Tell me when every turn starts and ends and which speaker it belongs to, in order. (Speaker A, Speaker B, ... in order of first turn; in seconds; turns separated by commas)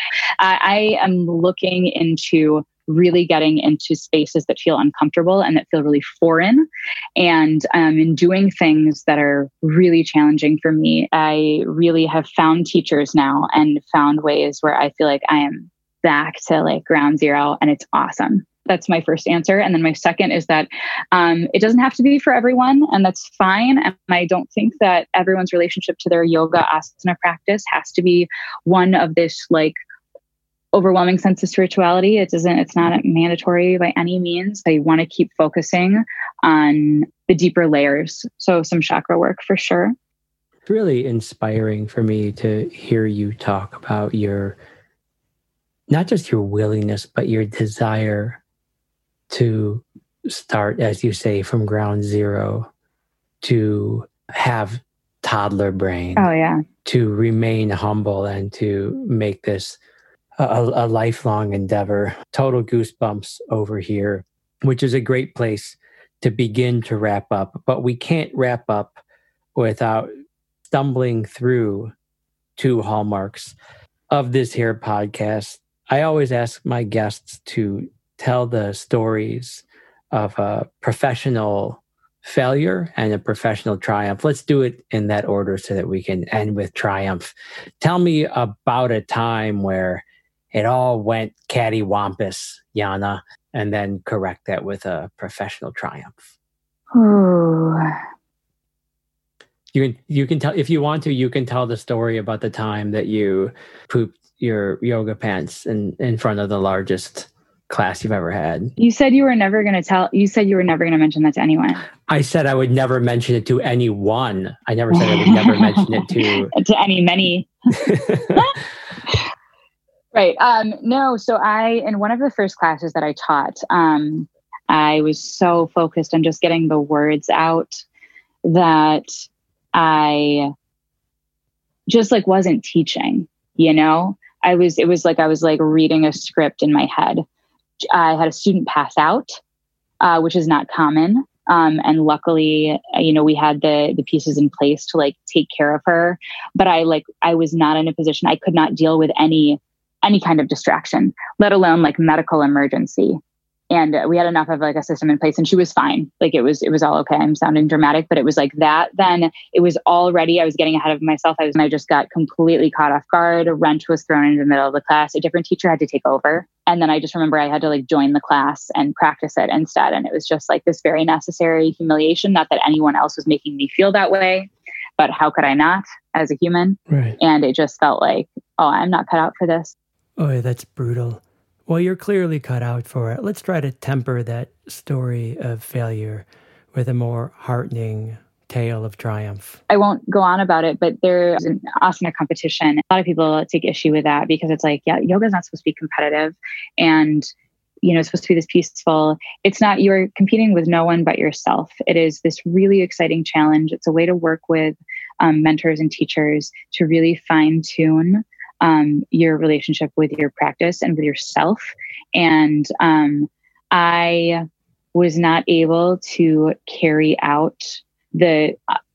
Speaker A: 0.4-29.7, Speaker A: 30.7-39.9, Speaker B: 40.6-44.6, Speaker B: 45.9-48.4, Speaker B: 49.3-52.7, Speaker B: 53.4-56.3, Speaker A: 56.1-56.6, Speaker B: 56.8-59.8, Speaker B: 60.4-69.0, Speaker B: 69.5-70.1, Speaker B: 70.6-71.9, Speaker B: 72.5-73.6, Speaker B: 74.1-96.3, Speaker A: 96.9-98.0, Speaker B: 99.7-108.7, Speaker A: 108.8-111.8, Speaker B: 112.1-116.5, Speaker A: 114.9-118.5, Speaker B: 117.8-118.5, Speaker A: 120.1-127.8, Speaker A: 128.4-129.1, Speaker A: 129.7-130.5, Speaker A: 131.9-137.2, Speaker A: 137.8-139.4, Speaker A: 140.0-153.2, Speaker A: 153.7-179.8, Speaker B: 176.9-177.2, Speaker C: 180.2-189.6, Speaker A: 189.7-197.3, Speaker A: 197.8-218.8